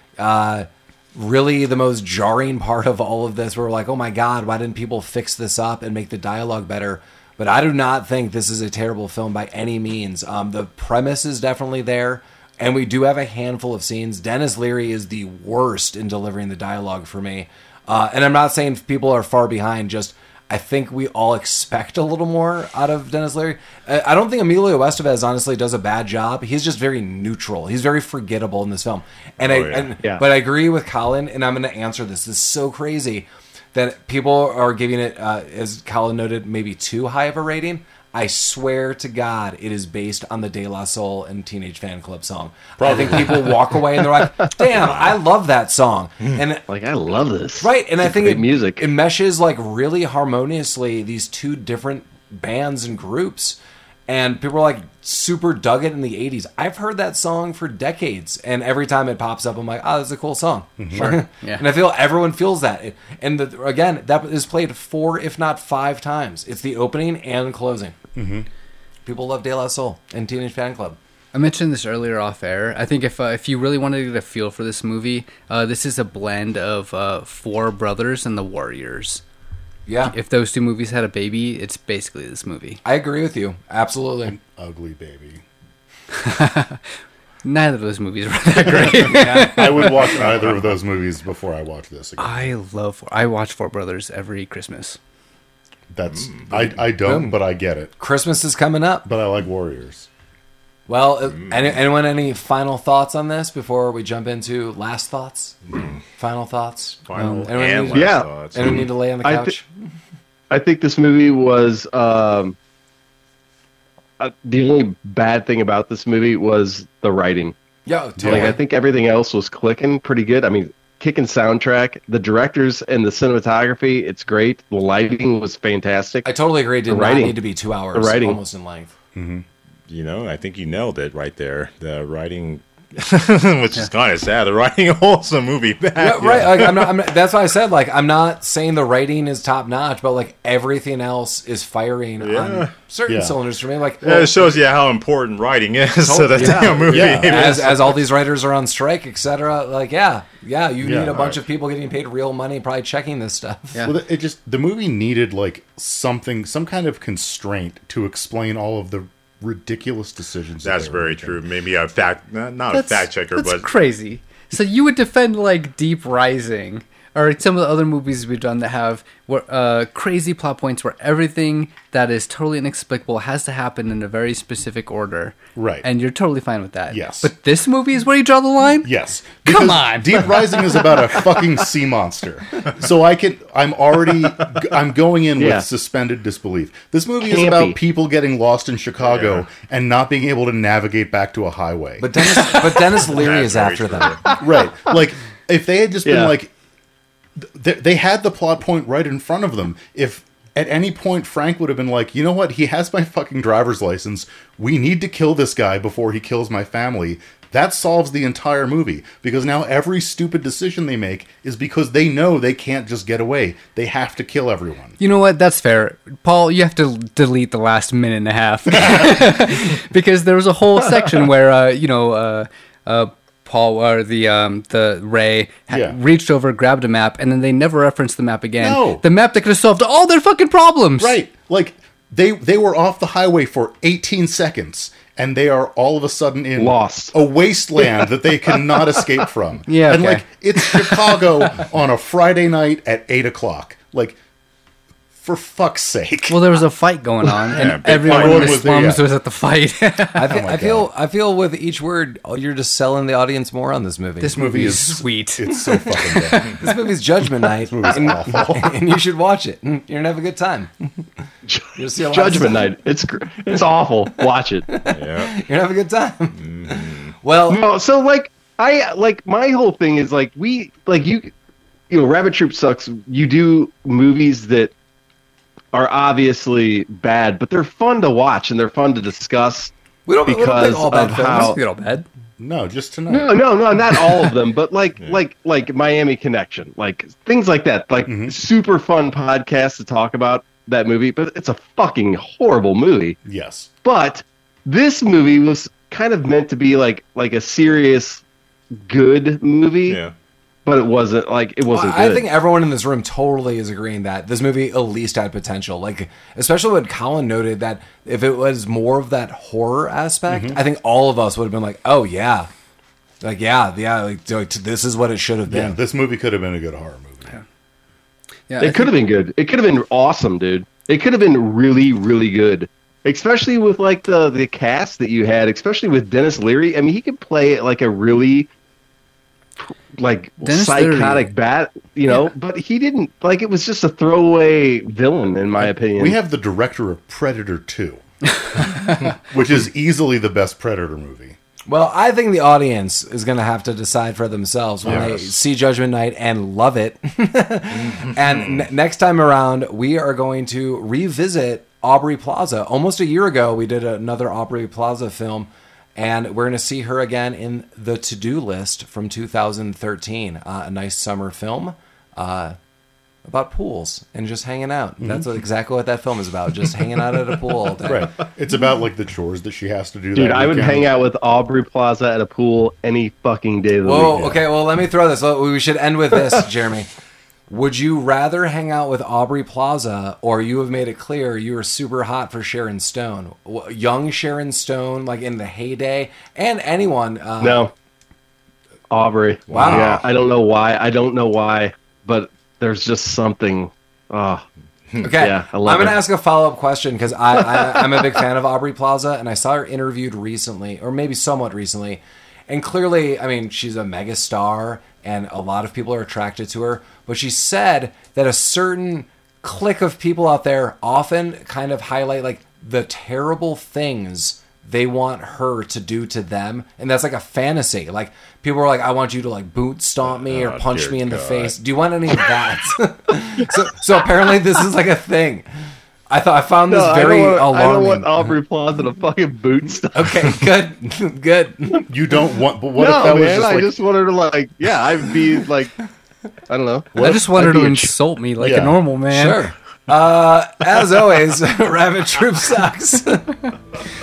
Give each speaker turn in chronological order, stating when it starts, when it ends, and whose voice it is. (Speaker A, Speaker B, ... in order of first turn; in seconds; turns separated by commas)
Speaker A: 0.2-46.6, Speaker B: 29.4-30.0, Speaker C: 42.8-43.5, Speaker B: 44.7-45.1, Speaker D: 46.7-48.8, Speaker A: 47.6-68.0, Speaker C: 60.8-61.2, Speaker E: 60.9-61.6, Speaker C: 68.2-68.5, Speaker A: 69.0-71.0, Speaker E: 71.3-79.2, Speaker A: 79.9-80.2, Speaker E: 80.1-82.8, Speaker A: 82.8-84.4, Speaker C: 84.3-85.4, Speaker E: 86.1-86.8, Speaker E: 87.4-90.2, Speaker C: 88.7-92.5, Speaker A: 88.9-90.2, Speaker E: 92.2-95.0, Speaker C: 95.9-97.9, Speaker B: 96.1-96.5, Speaker A: 97.0-97.4, Speaker A: 98.0-99.0, Speaker C: 99.0-100.1, Speaker A: 100.9-109.7, Speaker B: 101.3-101.8, Speaker B: 107.0-108.9, Speaker D: 107.9-109.6, Speaker D: 110.5-112.5, Speaker D: 114.2-117.5, Speaker A: 117.8-118.6, Speaker C: 118.2-118.5, Speaker D: 118.2-126.2, Speaker A: 126.2-128.9, Speaker D: 126.9-127.4, Speaker D: 127.9-128.4, Speaker C: 129.1-129.4, Speaker B: 129.9-136.9, Speaker A: 135.9-144.5, Speaker C: 136.2-136.6, Speaker B: 142.2-142.7, Speaker C: 143.1-143.4, Speaker B: 144.0-148.0, Speaker A: 146.0-153.8, Speaker C: 146.9-147.5, Speaker C: 150.8-151.4, Speaker C: 153.8-161.4, Speaker B: 160.6-163.7, Speaker E: 162.7-178.9, Speaker C: 175.6-175.8, Speaker C: 176.9-177.3, Speaker C: 178.8-192.5, Speaker E: 179.4-181.5, Speaker D: 185.4-185.6, Speaker D: 187.2-187.8, Speaker B: 189.0-189.4, Speaker A: 192.0-194.3, Speaker B: 192.7-194.4, Speaker C: 194.3-196.5, Speaker D: 196.0-196.3, Speaker C: 197.4-215.0, Speaker E: 215.0-231.2, Speaker C: 225.7-226.0, Speaker C: 228.6-229.0, Speaker C: 231.0-244.2, Speaker D: 236.6-237.1, Speaker D: 238.5-239.1, Speaker E: 239.7-241.0, Speaker C: 245.2-246.4, Speaker E: 246.3-250.4, Speaker B: 247.5-248.6, Speaker C: 247.6-249.0, Speaker A: 250.1-254.9, Speaker C: 250.3-250.9, Speaker E: 254.2-256.7, Speaker C: 254.3-256.5, Speaker A: 255.7-261.0, Speaker C: 257.6-258.7, Speaker D: 261.4-264.7, Speaker A: 261.7-262.7, Speaker A: 264.7-267.6, Speaker B: 264.9-265.3, Speaker B: 266.3-267.1, Speaker D: 267.5-271.3, Speaker D: 271.9-274.7, Speaker D: 275.7-279.7, Speaker A: 280.1-281.6, Speaker D: 280.2-281.6, Speaker E: 281.2-282.1, Speaker C: 282.4-283.4, Speaker D: 283.1-293.2, Speaker C: 288.1-288.3, Speaker C: 293.2-293.7, Speaker D: 293.8-298.2, Speaker D: 298.8-300.0, Speaker B: 299.9-300.1, Speaker D: 300.6-302.2, Speaker A: 301.7-312.5, Speaker C: 310.3-310.6, Speaker A: 313.2-315.8, Speaker C: 315.5-317.4, Speaker E: 318.5-318.9, Speaker D: 318.6-328.5, Speaker D: 329.6-336.1, Speaker E: 330.4-331.3, Speaker C: 335.6-338.0, Speaker C: 338.5-341.4, Speaker E: 338.6-339.0, Speaker A: 341.7-362.6, Speaker C: 344.8-345.2, Speaker B: 347.8-348.7, Speaker A: 363.2-368.1, Speaker C: 365.0-365.3, Speaker C: 367.9-370.9, Speaker D: 370.1-374.3, Speaker A: 373.8-376.9, Speaker C: 374.1-374.4, Speaker A: 377.5-387.6, Speaker D: 387.4-387.7, Speaker D: 388.9-394.4, Speaker A: 389.5-390.0, Speaker B: 389.6-390.0, Speaker A: 395.0-425.5, Speaker D: 395.1-396.0, Speaker B: 420.1-421.6, Speaker A: 426.1-428.3, Speaker D: 426.7-430.4, Speaker A: 429.9-431.9, Speaker C: 431.9-433.7, Speaker D: 432.8-435.7, Speaker D: 436.5-437.9, Speaker E: 436.9-439.4, Speaker C: 438.4-438.8, Speaker A: 439.1-443.4